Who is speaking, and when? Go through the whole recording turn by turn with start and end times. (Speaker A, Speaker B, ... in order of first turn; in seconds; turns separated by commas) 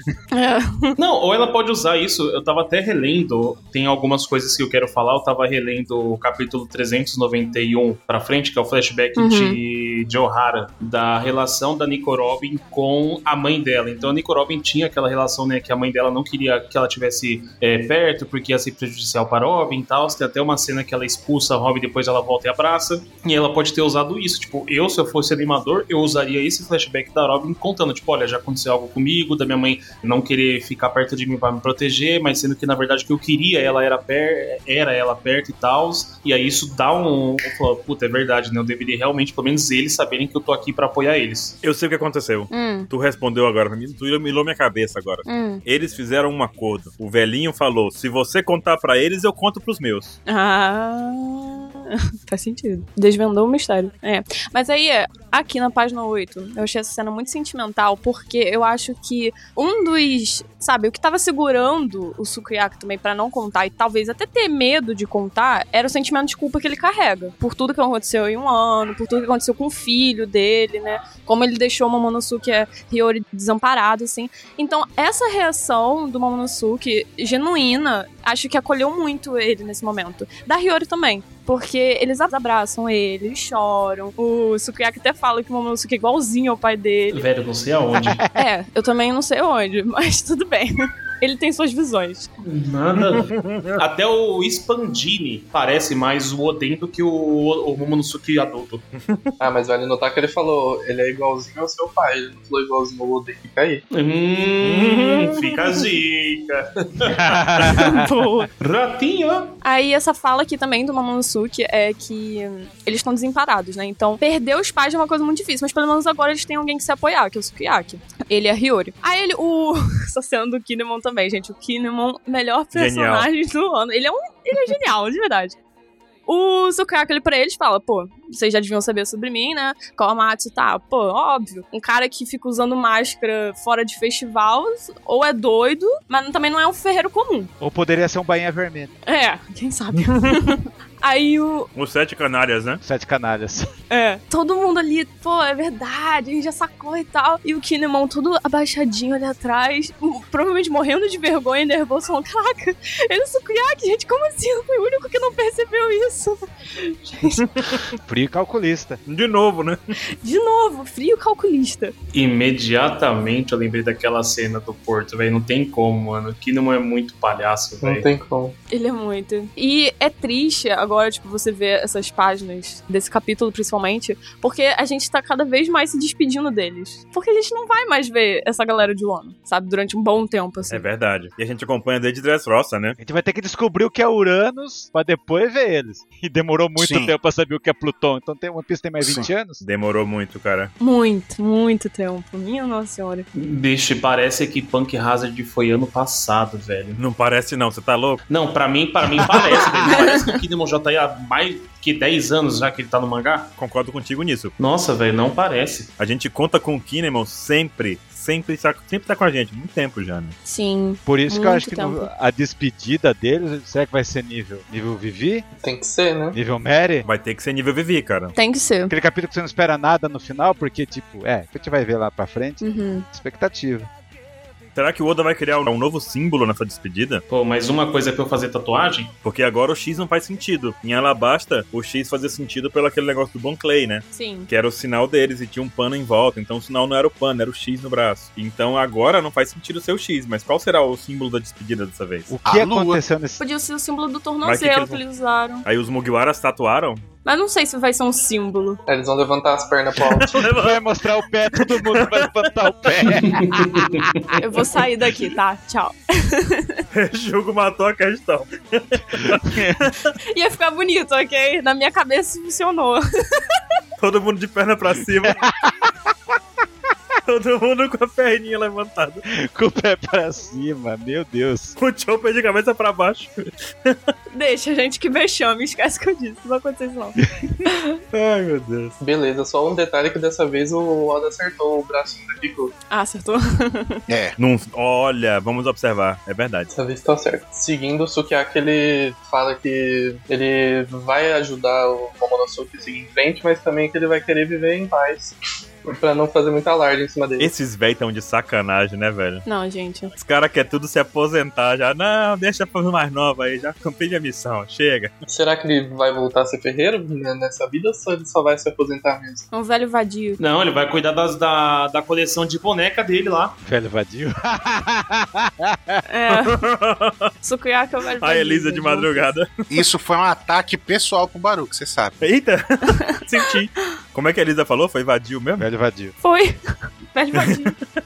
Speaker A: 0.3-1.0, Speaker B: 1.0-41.6, Speaker A: 9.2-9.6, Speaker C: 41.6-50.2, Speaker A: 42.5-42.9, Speaker A: 45.3-45.6, Speaker A: 50.3-87.2, Speaker B: 87.1-88.2, Speaker D: 88.0-88.4, Speaker A: 88.3-92.3, Speaker B: 92.4-98.8, Speaker C: 93.0-93.8, Speaker C: 99.0-99.3, Speaker E: 99.4-103.8, Speaker B: 103.9-107.8, Speaker C: 104.6-105.5, Speaker D: 107.0-108.1, Speaker A: 107.7-108.5, Speaker B: 108.6-109.5, Speaker A: 109.6-125.6, Speaker C: 122.7-123.3, Speaker A: 126.3-137.5, Speaker D: 137.6-138.9, Speaker A: 139.1-141.7, Speaker C: 141.8-142.8, Speaker D: 142.8-143.7, Speaker A: 143.9-157.4, Speaker C: 157.3-157.8, Speaker D: 158.1-159.0, Speaker C: 159.1-159.8, Speaker A: 160.2-161.9, Speaker B: 162.1-168.1, Speaker E: 167.8-168.6, Speaker A: 168.7-180.8, Speaker C: 180.7-183.0, Speaker D: 183.0-189.6, Speaker F: 186.8-187.1, Speaker F: 189.0-189.3, Speaker C: 189.6-190.7, Speaker A: 190.8-193.3, Speaker B: 193.3-197.0, Speaker C: 197.0-198.2, Speaker B: 198.3-203.5, Speaker A: 199.8-200.3, Speaker C: 203.6-204.5, Speaker B: 204.6-205.9, Speaker C: 206.0-210.3, Speaker A: 210.5-212.1, Speaker D: 211.1-215.5, Speaker E: 215.6-216.4, Speaker D: 216.3-217.1, Speaker C: 217.0-218.3, Speaker A: 218.4-218.9, Speaker D: 218.9-223.9, Speaker A: 222.6-223.1, Speaker C: 224.8-227.2, Speaker B: 227.3-229.1, Speaker C: 229.2-242.3, Speaker A: 234.1-234.5, Speaker D: 242.3-243.4, Speaker F: 242.4-243.0, Speaker A: 243.4-245.7, Speaker C: 244.4-245.0, Speaker C: 245.7-247.1, Speaker A: 247.2-248.8, Speaker E: 248.9-250.3, Speaker C: 250.2-250.8, Speaker D: 250.5-254.1, Speaker C: 251.9-252.3, Speaker B: 253.2-253.9, Speaker A: 254.4-256.8, Speaker C: 256.9-260.1, Speaker D: 259.2-259.8, Speaker A: 260.3-263.6, Speaker C: 264.0-265.4, Speaker D: 265.2-266.1, Speaker C: 267.3-269.2, Speaker D: 269.3-271.8, Speaker C: 271.8-274.0, Speaker A: 274.3-278.0, Speaker C: 278.1-278.9, Speaker E: 279.0-282.7, Speaker A: 282.9-284.0, Speaker F: 284.1-284.4, Speaker C: 284.4-286.7, Speaker E: 286.7-297.5, Speaker C: 297.4-299.4, Speaker A: 299.4-300.1, Speaker C: 300.2-305.1, Speaker E: 305.3-309.5, Speaker A: 309.5-310.4, Speaker B: 310.4-313.6, Speaker D: 313.6-316.0, Speaker A: 316.1-316.6, Speaker C: 316.3-317.3, Speaker A: 317.4-319.3, Speaker C: 318.2-319.5, Speaker F: 319.7-322.2, Speaker C: 322.2-325.7, Speaker A: 322.9-323.5, Speaker D: 325.6-326.1, Speaker A: 326.2-327.7, Speaker C: 327.3-327.7